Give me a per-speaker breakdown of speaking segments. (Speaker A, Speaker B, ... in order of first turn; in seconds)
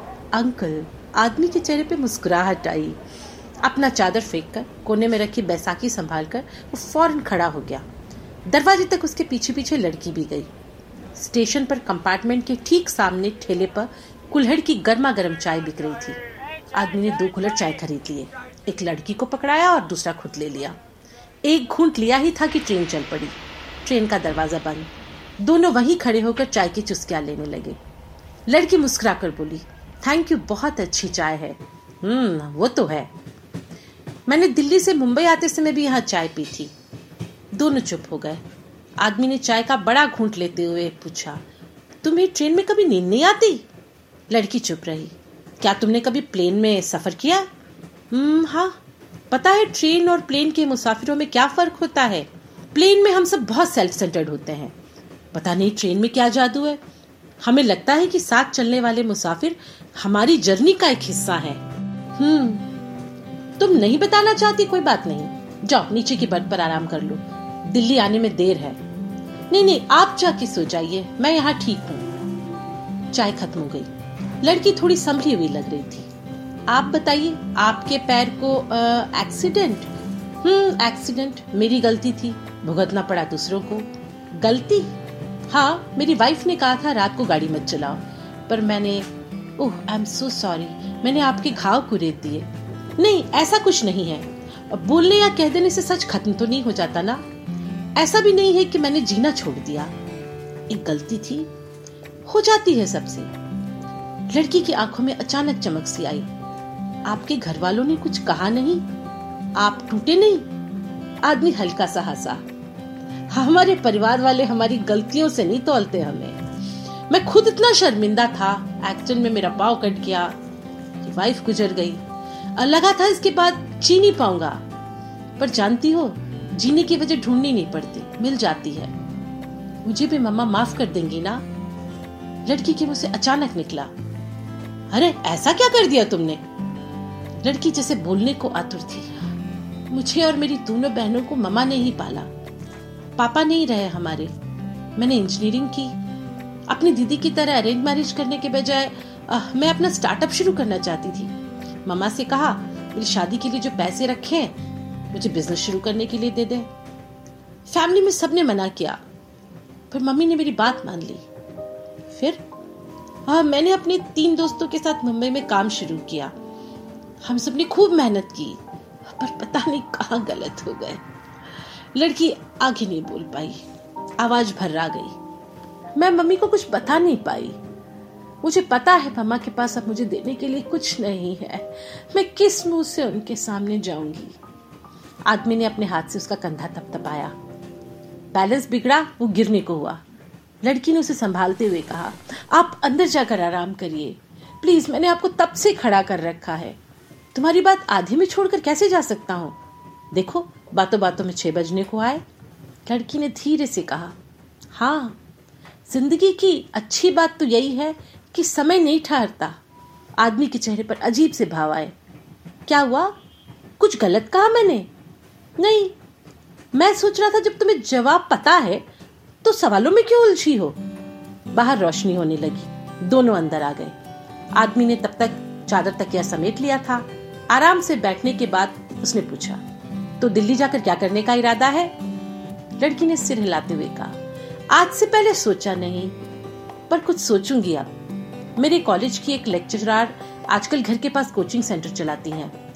Speaker A: 0.3-3.0, 3.6-7.8, 8.5-10.5, 11.2-16.2, 16.8-20.8, 21.5-24.9, 25.4-27.8, 28.5-33.1, 34.3-36.7, 37.5-38.4, 39.0-41.4, 42.0-43.6, 44.3-47.5, 48.1-48.8, 49.3-54.7, 55.3-56.8, 57.4-61.6, 62.2-62.6, 63.6-68.8, 69.5-72.1, 73.1-73.9, 74.4-76.1, 76.7-79.9, 80.4-84.9, 85.5-89.1, 89.6-97.2, 98.0-99.9, 100.7-101.5, 102.3-103.3, 104.3-106.3, 107.1-108.9, 109.6-110.5, 111.2-112.4, 113.3-116.4, 117.1-120.3, 121.0-122.0, 122.6-124.6, 125.4-128.9, 129.8-131.4, 132.5-133.9, 134.9-136.4, 137.4-139.1, 139.9-142.3, 143.2-144.3, 145.0-145.9, 146.7-151.3, 151.8-154.5, 155.1-156.7, 157.7-159.0, 159.9-161.2, 162.1-162.4, 163.3-166.3, 167.2-168.6, 169.1-171.0, 171.9-173.6, 174.2-175.2, 175.9-177.6, 178.4-184.4, 185.3-187.3, 188.3-190.0, 190.6-196.8, 197.3-199.6, 200.1-202.2, 202.9-204.2, 204.8-205.2, 205.9-209.6, 210.2-211.9, 212.7-213.1, 213.8-214.9, 215.6-215.9, 216.7-218.8, 219.4-220.8, 221.5-223.9, 224.6-229.6, 230.2-231.9, 232.8-234.2, 234.7-236.2, 236.9-237.9, 238.6-242.5